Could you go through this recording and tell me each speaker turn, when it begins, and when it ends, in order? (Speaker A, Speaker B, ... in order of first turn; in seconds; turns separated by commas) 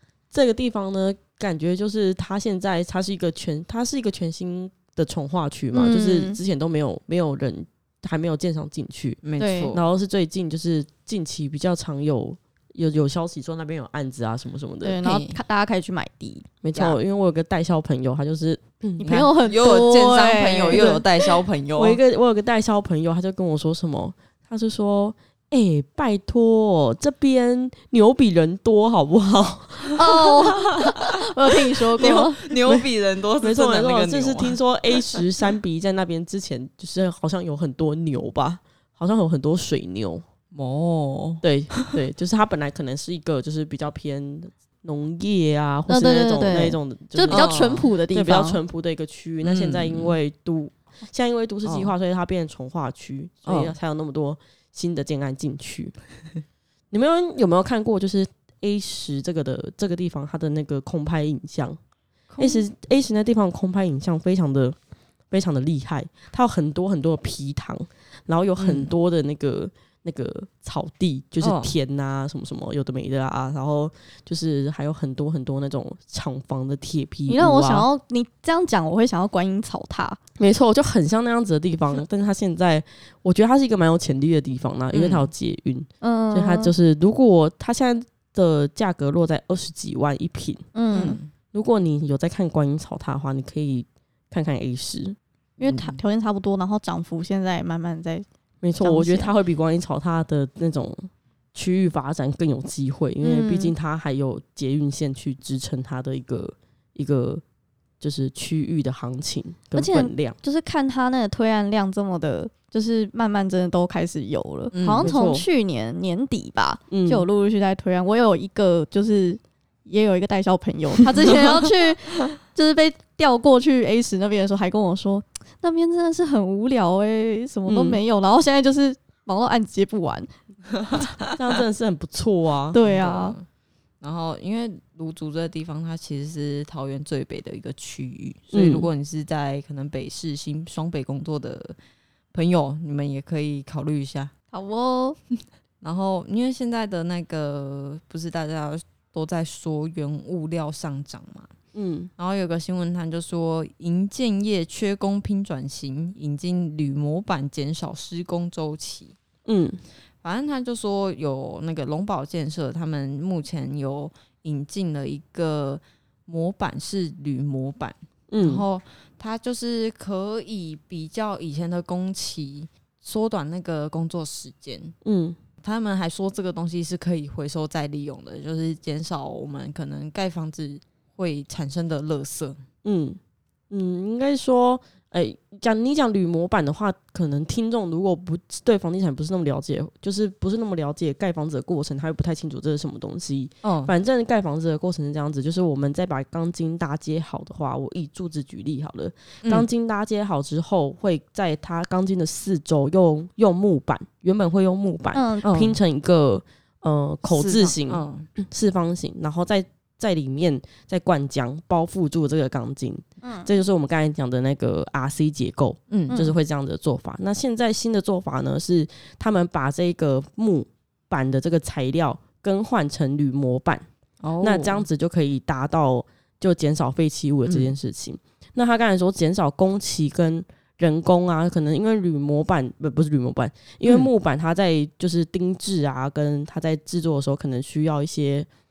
Speaker A: 0.3-14.9, Speaker B: 5.7-6.4, Speaker C: 9.2-9.8, Speaker B: 9.4-9.7, Speaker B: 14.8-16.5, Speaker C: 15.0-15.4, Speaker A: 16.6-19.1, Speaker B: 19.0-21.0, Speaker C: 19.0-22.0, Speaker A: 20.7-21.0, Speaker A: 21.8-30.0, Speaker B: 29.9-32.4, Speaker C: 32.0-34.6, Speaker A: 32.0-32.9, Speaker A: 33.4-40.2, Speaker C: 40.5-42.0, Speaker A: 41.4-56.0, Speaker B: 45.9-48.6, Speaker C: 47.3-47.9, Speaker C: 49.4-50.1, Speaker C: 51.6-51.9, Speaker C: 53.4-53.7, Speaker A: 56.9-61.8, Speaker C: 62.3-62.6, Speaker A: 62.4-77.8, Speaker C: 68.6-68.9, Speaker C: 71.4-71.7, Speaker B: 77.3-80.2, Speaker A: 80.4-90.6, Speaker C: 84.9-85.3, Speaker B: 86.0-86.7, Speaker B: 90.7-91.2, Speaker C: 90.9-91.3, Speaker A: 91.5-95.2, Speaker B: 95.6-98.2, Speaker C: 95.6-96.0, Speaker A: 98.6-107.4, Speaker B: 98.8-99.3, Speaker B: 103.2-103.7, Speaker A: 108.0-110.3, Speaker B: 109.7-130.3, Speaker C: 114.7-115.0, Speaker A: 115.0-115.4, Speaker A: 116.9-117.2, Speaker A: 127.7-128.0, Speaker A: 131.3-132.8, Speaker B: 132.7-133.3, Speaker C: 132.8-133.5, Speaker C: 134.0-141.8, Speaker A: 138.5-138.9, Speaker C: 142.3-144.3, Speaker B: 144.5-145.2, Speaker C: 145.8-151.5, Speaker A: 151.7-152.1, Speaker C: 152.2-159.2, Speaker A: 159.4-159.8, Speaker C: 160.2-174.9, Speaker A: 168.3-168.6, Speaker A: 175.0-175.3, Speaker C: 175.6-182.6, Speaker A: 182.8-183.2, Speaker A: 183.7-223.8, Speaker C: 193.6-193.9, Speaker C: 199.4-199.7, Speaker B: 205.1-205.4, Speaker C: 205.4-205.8, Speaker C: 207.3-208.3, Speaker B: 213.2-213.5, Speaker B: 216.1-216.4, Speaker C: 224.2-224.8, Speaker A: 224.4-238.5, Speaker C: 227.4-227.7